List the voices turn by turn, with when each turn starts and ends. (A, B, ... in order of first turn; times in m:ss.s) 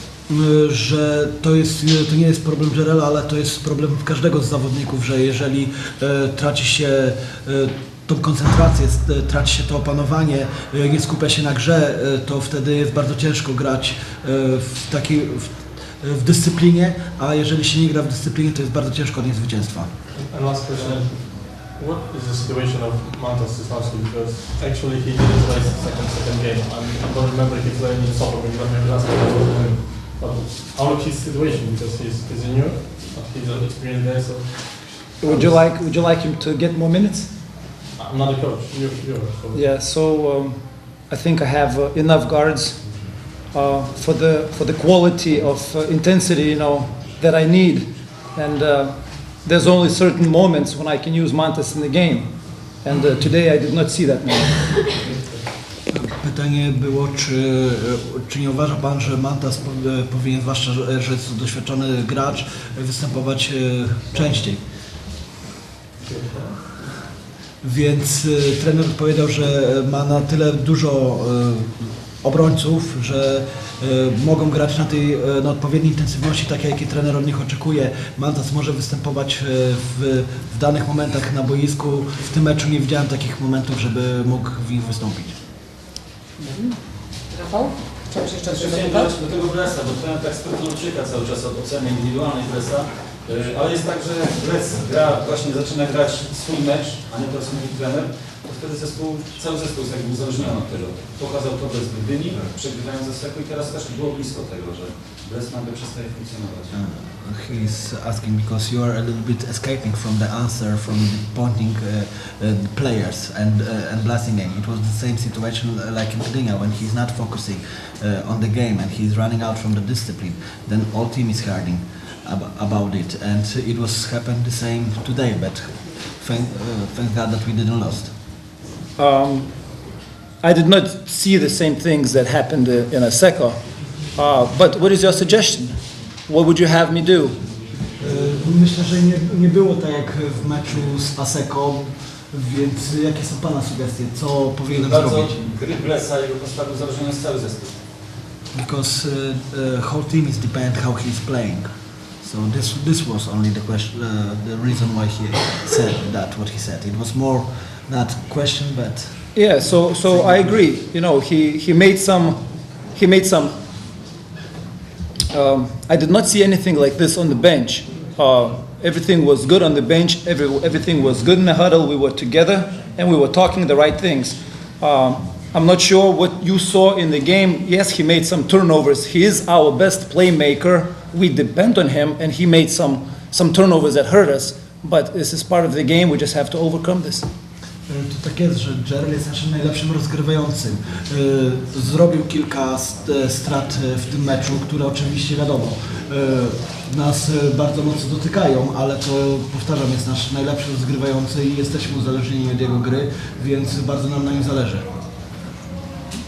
0:00.3-0:19.9 A
0:20.1-0:35.6 B
0:35.2-0:37.3 C
0:38.0-0:39.6 B
0:39.5-0:54.8 C
0:55.9-1:04.6 A
1:06.0-1:06.6 B
1:07.6-1:25.3 A
1:26.4-1:26.8 D
1:27.3-1:29.2 D
1:28.5-1:46.8 E
1:46.7-2:08.1 A
2:09.0-2:17.4 C
2:18.0-2:25.4 A
2:24.7-2:27.8 E
2:28.5-2:31.7 A
2:32.2-2:39.6 A
2:39.3-2:43.5 C
2:40.1-2:40.5 A
2:45.3-3:07.3 C
3:07.9-3:24.9 A